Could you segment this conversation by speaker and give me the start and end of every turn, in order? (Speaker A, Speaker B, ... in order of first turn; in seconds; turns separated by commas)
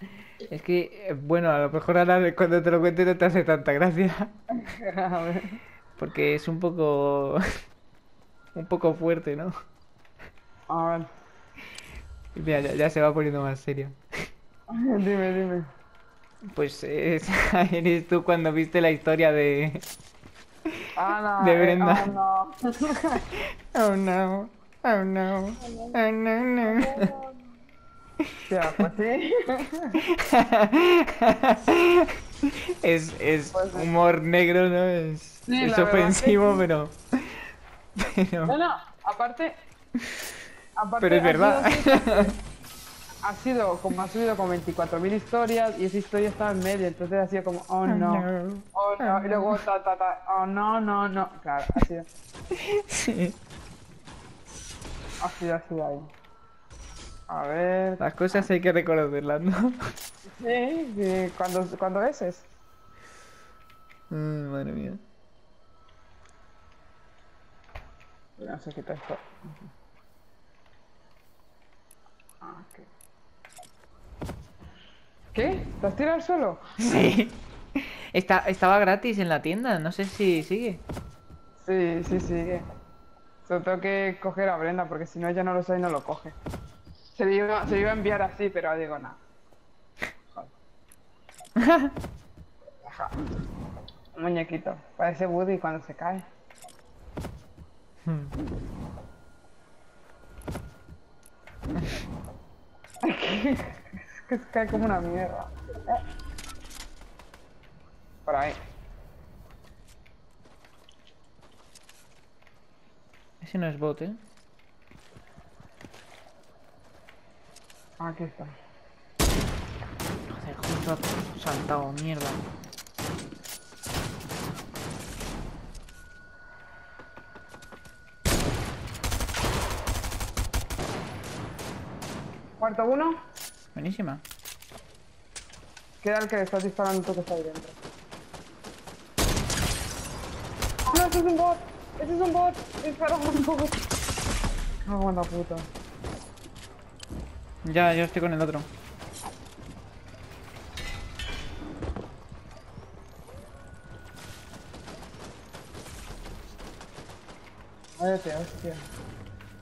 Speaker A: 0.5-4.3, Speaker B: 4.6-5.6, Speaker A: 6.0-7.4, Speaker A: 8.5-9.5, Speaker B: 10.7-11.1, Speaker A: 12.3-14.0, Speaker B: 14.7-15.7, Speaker A: 16.5-19.9, Speaker B: 21.0-23.2, Speaker A: 21.4-22.1, Speaker A: 23.3-27.1, Speaker B: 25.6-26.0, Speaker B: 26.6-27.4, Speaker B: 28.5-30.0, Speaker A: 30.1-38.5, Speaker B: 33.5-33.9, Speaker B: 35.5-36.6, Speaker B: 38.5-39.5, Speaker B: 40.8-42.3, Speaker A: 41.0-42.4, Speaker B: 43.2-52.1, Speaker A: 47.9-49.6, Speaker A: 52.5-53.4, Speaker B: 55.2-56.1, Speaker B: 57.3-58.5, Speaker A: 58.0-59.9, Speaker B: 60.3-62.5, Speaker A: 64.1-65.0, Speaker B: 68.4-69.7, Speaker B: 72.4-72.9, Speaker B: 75.3-76.6, Speaker A: 76.8-80.8, Speaker B: 81.6-82.7, Speaker B: 83.5-86.4, Speaker B: 87.2-89.2, Speaker A: 91.6-91.9, Speaker B: 92.8-93.2, Speaker B: 94.2-96.2, Speaker A: 98.0-98.3, Speaker B: 103.0-106.0, Speaker B: 108.3-108.6, Speaker A: 113.4-114.2, Speaker B: 118.0-118.5, Speaker A: 120.3-122.4, Speaker B: 132.6-133.1, Speaker A: 133.7-134.2, Speaker B: 136.0-137.8, Speaker B: 140.9-143.8, Speaker B: 144.8-145.7, Speaker A: 147.6-148.7, Speaker B: 158.0-158.8